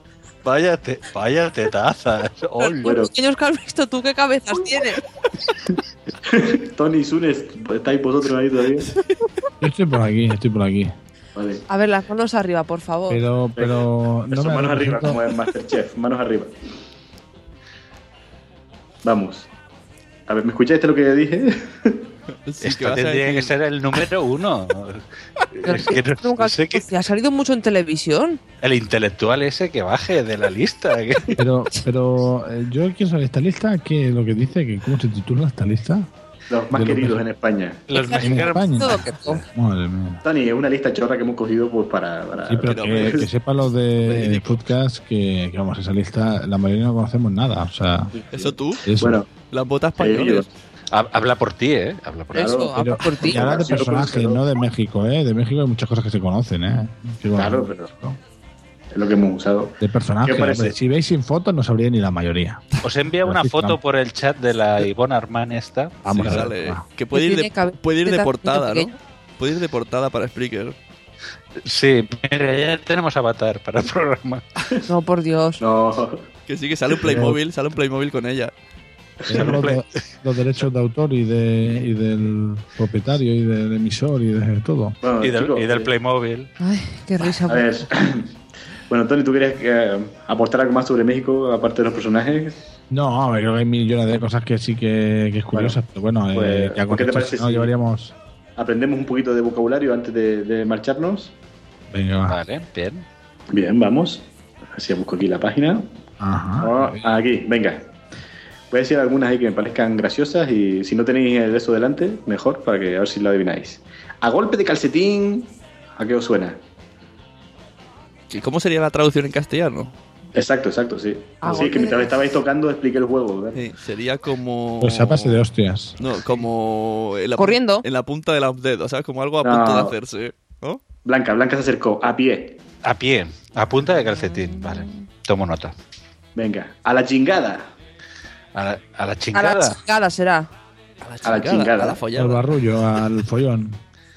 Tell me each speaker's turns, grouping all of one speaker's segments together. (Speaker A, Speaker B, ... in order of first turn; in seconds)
Speaker A: 0.4-2.9, 22.6-25.0, 25.6-26.9, 28.6-31.3, 37.9-39.4, 50.9-52.6, 62.8-66.5, 71.6-74.4, 79.3-79.8, 85.2-86.5, 102.3-103.0, 132.8-135.7, 138.5-139.8
Speaker B: 2.6-5.0, 11.7-13.2, 25.6-28.4, 37.9-39.4, 52.3-53.5, 67.1-68.9, 74.9-75.6, 86.6-87.7, 121.4-122.2, 127.4-127.8, 139.3-140.5
Speaker C: 2.8-3.1, 6.2-8.9, 11.3-11.6, 13.6-16.5, 19.0-19.5, 20.3-22.1, 36.5-37.9, 40.2-43.3, 48.1-49.3, 50.0-50.5, 52.4-52.7, 53.2-54.4, 57.4-58.1, 58.9-60.8, 75.6-76.2, 79.2-79.6, 85.0-85.9, 87.4-88.3, 88.9-92.7, 95.5-95.8, 96.3-97.7, 98.6-101.3, 103.5-105.8, 106.6-107.9, 108.7-116.6, 120.3-123.6, 129.4-129.9, 131.0-132.6, 136.3-137.7, 141.2-142.0
Speaker D: 9.6-10.9, 13.1-15.2, 31.4-36.1, 36.7-37.2, 38.2-40.2, 42.5-48.1, 48.8-49.2, 52.7-58.2, 59.8-62.7, 63.2-63.8, 66.0-66.8, 77.0-77.4, 79.3-85.0, 92.9-98.1, 101.9-102.4, 106.2-107.0, 124.8-126.0, 142.1-143.8
Speaker E: 22.4-23.5, 42.6-43.3, 44.0-44.6, 48.3-50.5, 66.1-70.8, 76.5-78.5, 118.3-119.9, 123.5-125.4, 126.0-130.8, 141.0-142.5